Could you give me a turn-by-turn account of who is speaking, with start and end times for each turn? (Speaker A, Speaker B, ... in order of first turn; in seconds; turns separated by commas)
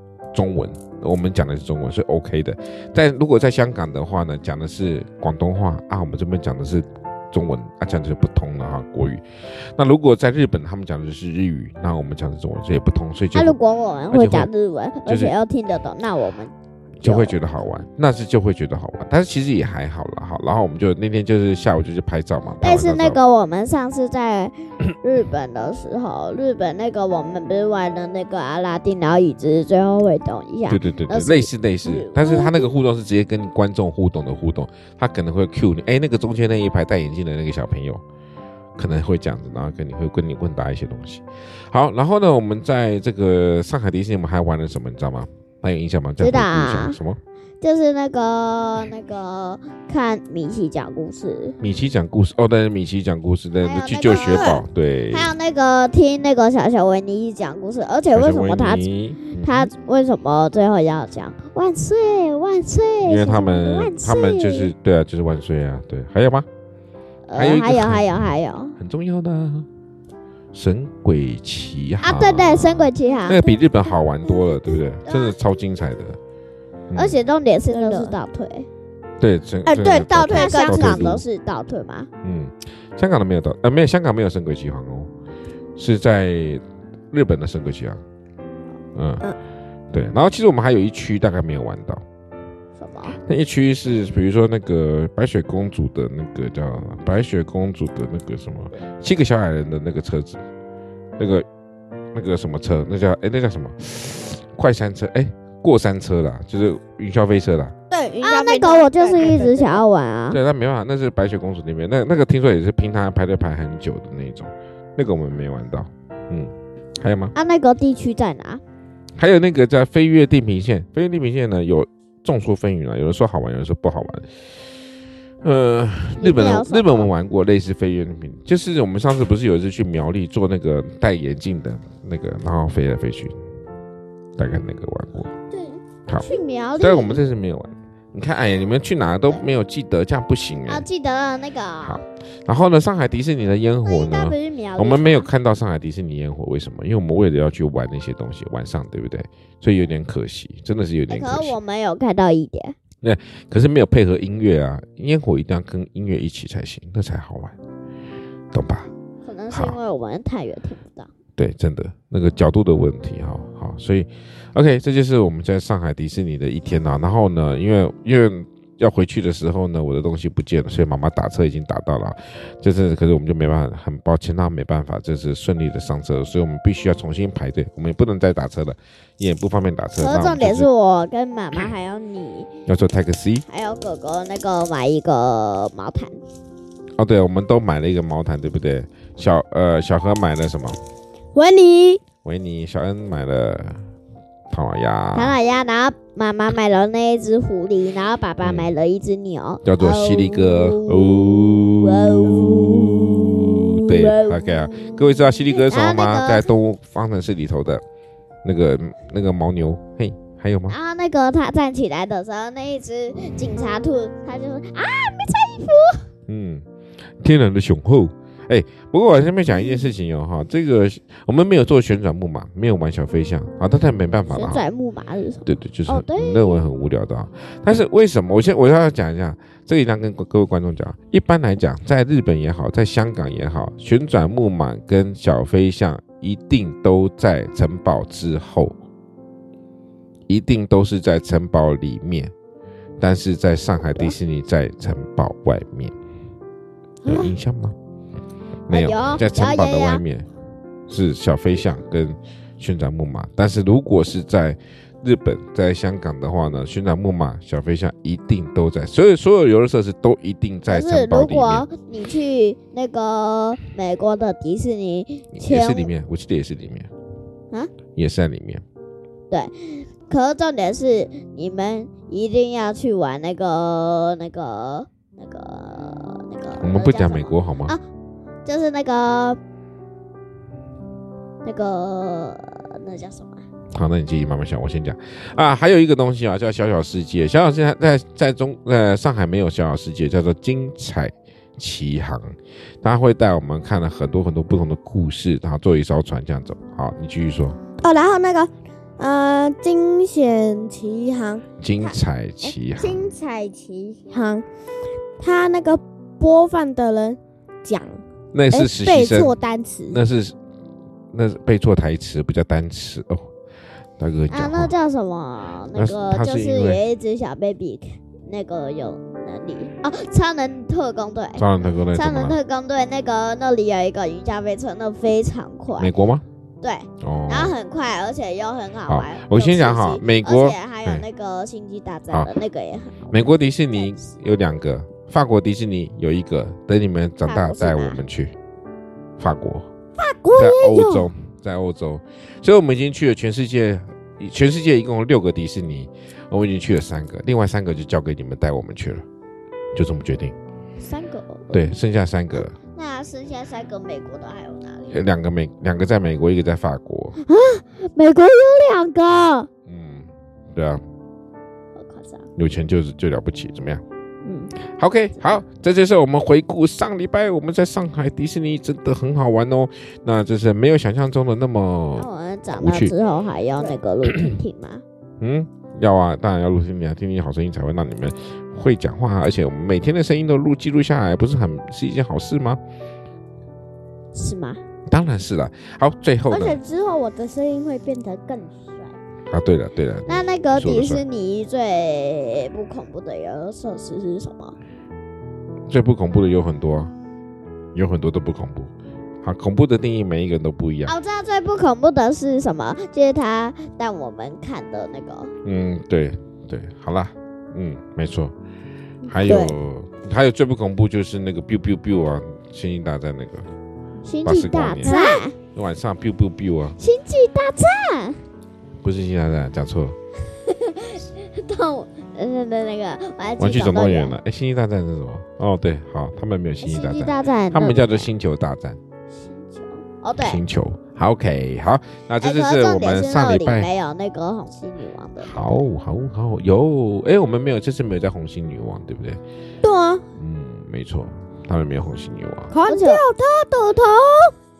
Speaker A: 0.3-13.6, Speaker B: 13.3-17.3, Speaker A: 14.1-14.5, Speaker A: 15.1-15.3, Speaker A: 17.0-23.2, Speaker B: 22.6-32.7, Speaker A: 30.7-38.0, Speaker A: 38.8-47.2, Speaker B: 46.2-47.0, Speaker B: 47.6-51.5, Speaker A: 51.6-55.3, Speaker B: 53.6-64.7, Speaker C: 54.0-54.6, Speaker A: 58.1-59.7, Speaker A: 63.0-66.5, Speaker B: 67.3-68.8, Speaker A: 67.3-69.7, Speaker A: 70.5-76.2, Speaker B: 72.0-73.5, Speaker C: 73.1-73.4, Speaker B: 75.1-75.3, Speaker A: 76.9-77.2, Speaker B: 76.9-78.7, Speaker C: 77.7-78.2, Speaker A: 79.2-81.2, Speaker C: 79.6-81.1, Speaker B: 80.3-82.1, Speaker A: 82.2-85.1, Speaker A: 85.8-88.0, Speaker A: 88.9-89.2, Speaker A: 89.9-92.0, Speaker B: 92.8-93.2, Speaker A: 93.2-100.4, Speaker A: 101.2-101.5, Speaker A: 102.1-107.7, Speaker C: 107.9-109.8, Speaker B: 108.2-110.4, Speaker A: 110.3-117.3, Speaker B: 117.3-118.6, Speaker A: 119.2-124.3, Speaker A: 125.4-133.3, Speaker B: 126.2-127.1, Speaker A: 134.4-135.3, Speaker C: 135.5-136.8, Speaker B: 136.2-137.2, Speaker A: 136.8-140.8, Speaker B: 140.7-142.0, Speaker A: 141.8-151.5, Speaker B: 143.8-145.3, Speaker B: 151.1-152.8, Speaker A: 153.0-157.6, Speaker A: 158.5-158.9, Speaker B: 159.2-161.1, Speaker A: 159.5-159.8, Speaker A: 161.4-180.7, Speaker B: 180.0-182.5, Speaker A: 182.7-183.4, Speaker B: 183.5-186.2, Speaker A: 187.0-190.8, Speaker C: 191.3-192.0, Speaker A: 192.2-193.8, Speaker A: 194.5-195.3, Speaker B: 195.1-206.5, Speaker A: 198.4-198.7, Speaker A: 199.6-207.8, Speaker A: 208.4-210.8, Speaker B: 210.7-216.1, Speaker A: 216.3-216.6, Speaker A: 217.2-224.6, Speaker B: 224.3-226.6, Speaker A: 225.4-238.7, Speaker A: 240.3-242.3, Speaker A: 243.0-245.9, Speaker C: 247.0-247.3, Speaker A: 247.1-247.8, Speaker B: 248.7-250.0, Speaker A: 248.7-250.3, Speaker A: 250.9-261.6, Speaker B: 260.7-265.9, Speaker A: 265.3-266.9, Speaker A: 267.9-268.6, Speaker B: 269.3-277.8, Speaker A: 276.6-277.8, Speaker B: 278.4-279.4, Speaker B: 281.4-283.4, Speaker A: 283.7-297.6, Speaker C: 297.8-301.4, Speaker A: 301.6-303.1, Speaker C: 302.8-304.4, Speaker B: 303.3-303.9, Speaker C: 305.2-310.0, Speaker A: 308.3-309.3, Speaker A: 309.9-310.4, Speaker A: 311.1-313.3, Speaker A: 314.0-314.7, Speaker B: 314.3-325.9, Speaker A: 315.7-316.8, Speaker A: 321.4-322.4, Speaker A: 325.8-326.2, Speaker B: 326.6-333.2, Speaker A: 327.0-327.5, Speaker A: 328.9-331.0, Speaker A: 333.1-338.3, Speaker B: 333.8-334.0, Speaker B: 337.2-338.0, Speaker A: 339.2-339.7, Speaker C: 340.0-341.1, Speaker A: 340.4-349.0, Speaker A: 349.7-350.4, Speaker B: 350.9-351.4, Speaker A: 351.5-352.6, Speaker B: 352.6-355.0, Speaker A: 354.9-357.2, Speaker B: 357.2-359.5, Speaker A: 359.6-360.8, Speaker B: 361.8-362.2, Speaker A: 362.4-363.8, Speaker B: 364.2-364.5, Speaker A: 364.7-372.9, Speaker B: 371.9-374.8, Speaker A: 374.1-374.4, Speaker A: 375.2-382.6, Speaker B: 384.1-384.6, Speaker A: 384.9-386.6, Speaker C: 386.3-388.9, Speaker A: 389.3-391.0, Speaker B: 390.1-394.6, Speaker A: 395.7-396.9, Speaker A: 397.7-398.7, Speaker A: 399.2-400.9, Speaker B: 400.9-405.3, Speaker A: 405.4-408.3, Speaker C: 409.0-409.5, Speaker A: 409.1-413.5, Speaker B: 414.0-415.3, Speaker A: 414.2-416.8, Speaker C: 414.8-415.2, Speaker B: 416.8-418.2, Speaker A: 418.8-419.9, Speaker B: 420.4-424.1, Speaker A: 423.4-428.8, Speaker B: 426.6-428.1, Speaker B: 429.3-430.4, Speaker A: 430.2-433.7, Speaker B: 432.2-435.6, Speaker A: 435.2-439.2, Speaker C: 439.6-440.0, Speaker A: 440.2-442.5, Speaker C: 442.5-444.3, Speaker B: 442.7-443.0